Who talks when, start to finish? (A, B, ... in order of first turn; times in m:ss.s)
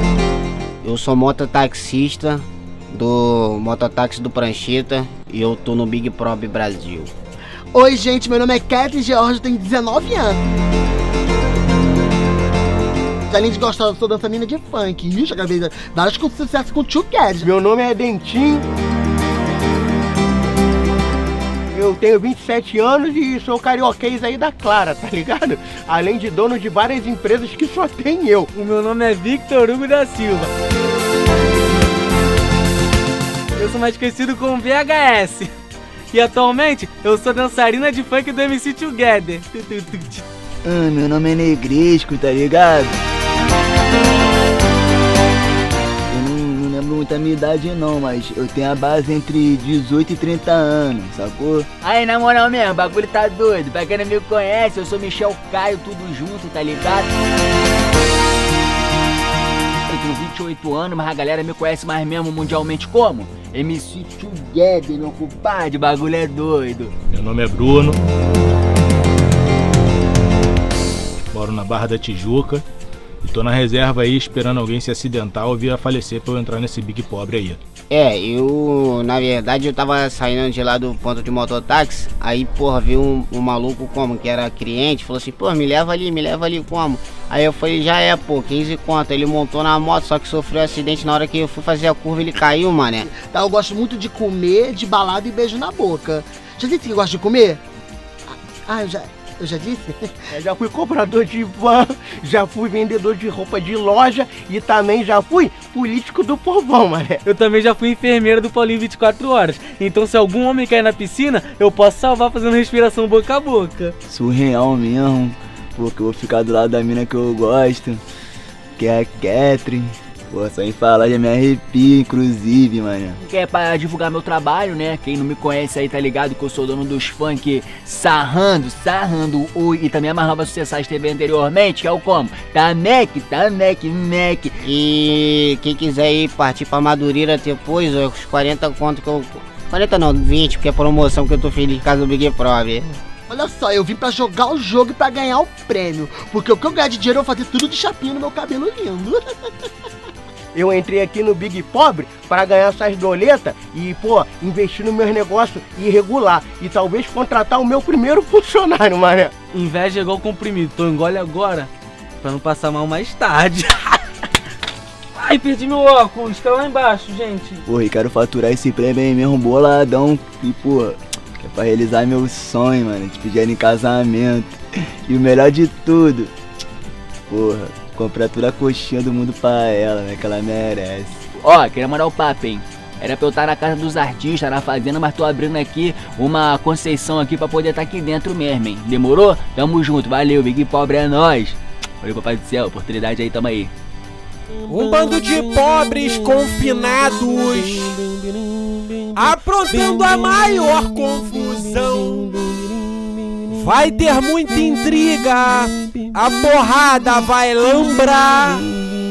0:00.8-0:07.1 A
0:07.7-0:10.4 B
0:13.3-0:17.5 B
0:17.4-0:18.6 C
0:21.7-0:28.5 C
0:28.5-0:30.5 D
0:33.5-0:35.5 D
0:36.1-0:40.2 D
0:40.6-0:43.0 E
0:46.1-0:51.7 E
0:51.8-0:57.1 F
0:59.9-1:06.9 F
1:07.1-1:08.0 G
1:11.3-1:12.6 G
1:13.2-1:17.6 G
1:17.9-1:33.1 A
1:33.1-1:37.6 B
1:38.3-1:40.2 B
1:40.3-1:47.2 C
1:47.2-1:53.9 D
1:54.1-1:58.0 E
1:58.8-2:03.2 E
2:03.2-2:14.6 F
2:14.6-2:22.9 A
2:23.3-2:29.7 B
2:30.5-2:39.3 C
2:39.5-2:41.7 D
2:42.2-2:44.0 D
2:45.1-2:47.6 D
2:47.6-2:56.3 E
2:57.3-3:01.2 E
3:01.4-3:13.7 F
3:14.7-3:18.1 H
3:19.1-3:22.6 H
3:23.5-3:28.7 H